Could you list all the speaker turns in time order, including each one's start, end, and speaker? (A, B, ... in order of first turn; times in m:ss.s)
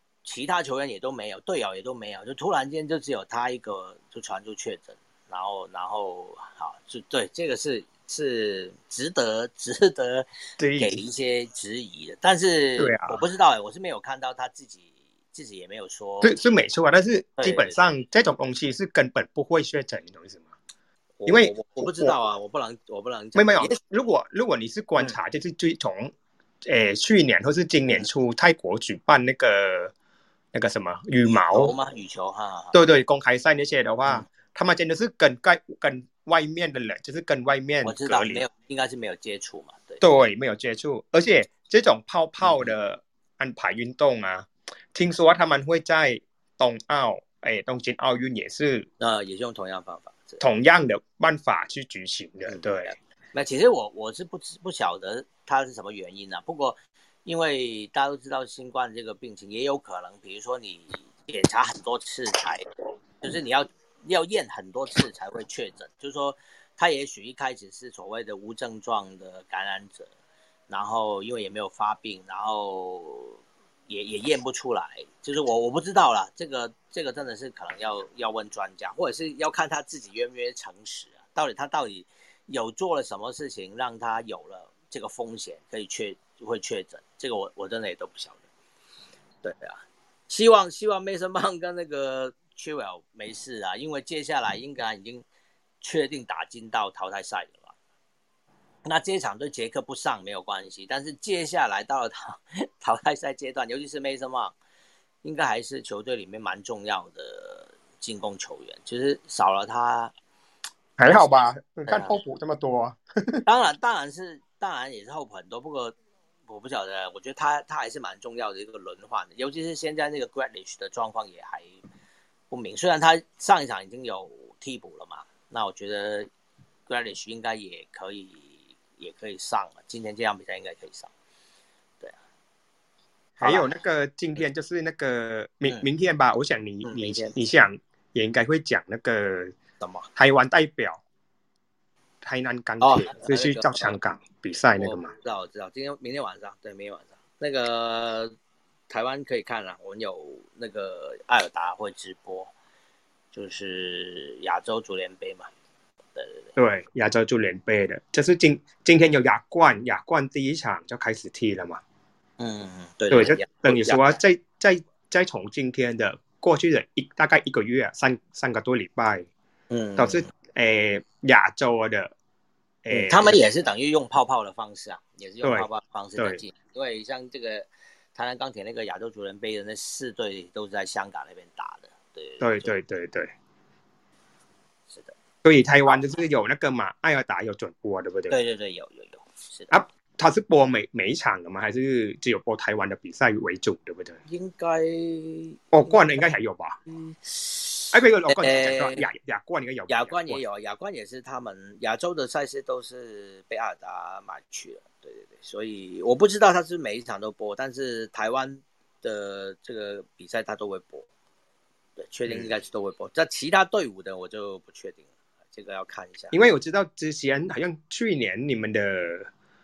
0:00.2-0:10.3 A
0:10.6-0:11.0 B
0:10.8-0:16.4 A
0:12.8-0:13.2 B
0:16.2-0:20.5 B
0:17.4-0:17.8 A
0:21.2-0:23.8 A
0:21.3-0:22.1 B
0:23.4-0:26.1 B
0:26.6-0:29.9 B
0:30.5-0:31.7 B
0:31.5-0:32.8 A
0:32.7-0:38.4 B
0:37.8-0:40.2 A
0:40.0-0:48.9 B
0:42.4-0:42.7 A
0:49.0-0:50.4 A
0:50.4-0:52.9 B
0:52.5-1:02.7 A
1:03.2-1:10.1 A
1:10.7-1:28.4 A
1:29.4-1:35.3 A
1:35.8-1:37.8 A
1:38.9-1:44.6 A
1:45.2-1:50.1 A
1:51.0-1:53.4 B
1:51.1-1:52.2 A
1:53.5-1:56.0 A
1:56.5-2:01.8 A
2:02.5-2:06.3 A
2:06.9-2:11.1 A
2:13.4-2:19.6 B
2:13.4-2:13.7 A
2:16.8-2:17.4 A
2:19.8-2:20.1 A
2:20.2-2:21.0 B
2:22.2-2:25.1 B
2:22.8-2:24.0 A
2:24.8-2:28.4 A
2:28.9-2:32.5 A
2:33.3-2:35.5 A
2:36.2-2:36.6 A
2:36.6-2:41.8 B
2:42.4-2:44.0 A
2:43.1-2:49.3 B
2:49.7-2:50.2 A
2:50.0-2:52.1 B
2:52.8-2:53.5 B
2:52.9-3:02.7 A
2:55.4-2:56.4 B
3:02.4-3:03.3 B
3:04.9-3:05.2 A
3:05.4-3:08.4 B
3:08.3-3:09.7 A
3:09.7-3:14.2 B
3:14.3-3:16.0 A
3:15.7-3:16.8 B
3:16.9-3:19.1 A
3:17.9-3:20.4 B
3:19.9-3:31.1 A
3:32.0-3:36.4 A
3:32.3-3:32.5 B
3:36.3-3:39.3 B